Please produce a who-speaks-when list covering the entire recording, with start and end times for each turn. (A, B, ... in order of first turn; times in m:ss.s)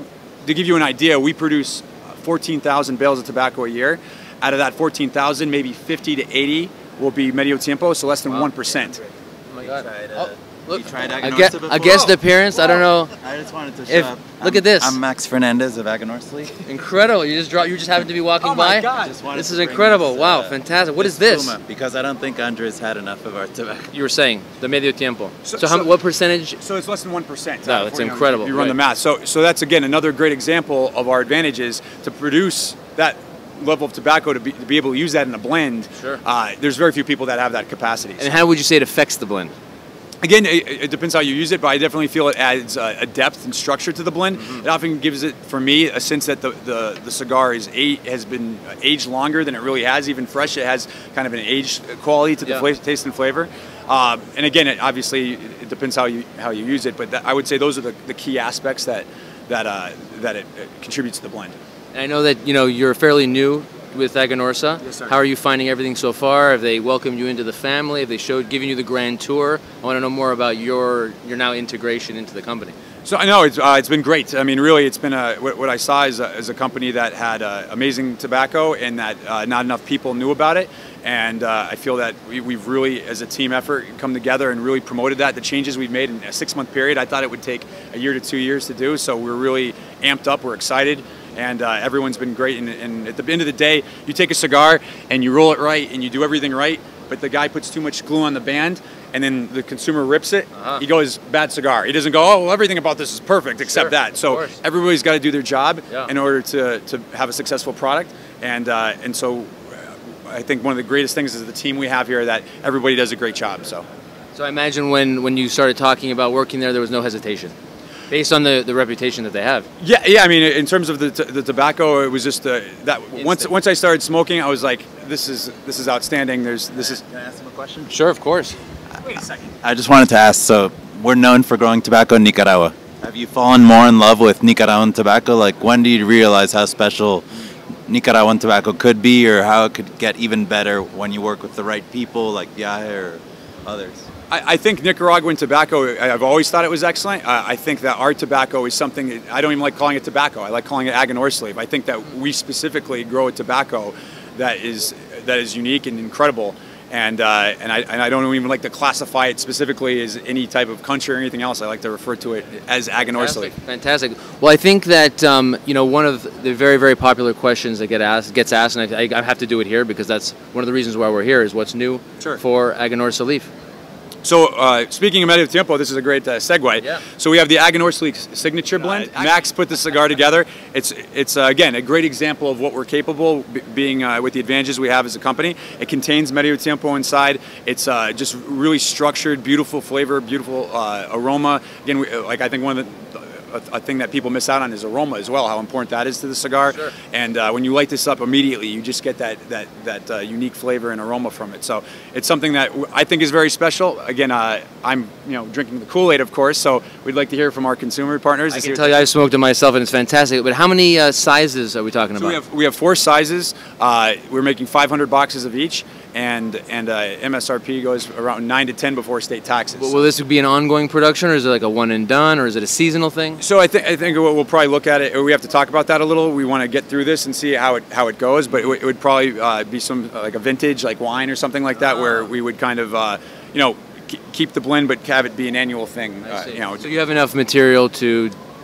0:00.4-0:09.0 A
0:09.5-0:13.1 B
0:09.6-0:12.0 C
0:11.7-0:12.1 A
0:13.1-0:16.6 C
0:13.9-0:15.0 B
0:16.6-0:21.5 B
0:18.4-0:19.2 A
0:19.0-0:23.9 C
0:23.9-0:26.6 B
0:25.4-0:25.9 A
0:26.6-0:38.3 A
0:27.6-0:28.8 B
0:36.0-0:36.2 B
0:38.2-0:39.5 B
0:40.2-1:01.5 A
1:01.9-1:12.7 B
1:04.8-1:05.1 A
1:13.0-1:53.8 A
1:40.5-1:40.8 B
1:43.7-1:44.6 B
1:54.3-1:57.5 B
1:58.1-1:59.7 B
1:59.8-2:07.0 A
2:03.1-2:03.5 B
2:06.9-2:07.9 C
2:07.9-2:08.6 B
2:09.6-2:17.2 C
2:17.9-2:24.0 C
2:24.3-2:43.5 A
2:43.1-2:53.5 B
2:54.2-3:29.1 A
2:58.8-2:59.4 B
3:28.5-3:32.4 B
3:32.2-3:40.1 A
3:39.8-3:43.4 B
3:43.4-3:56.8 A
3:51.8-3:52.3 B
3:56.2-3:58.3 B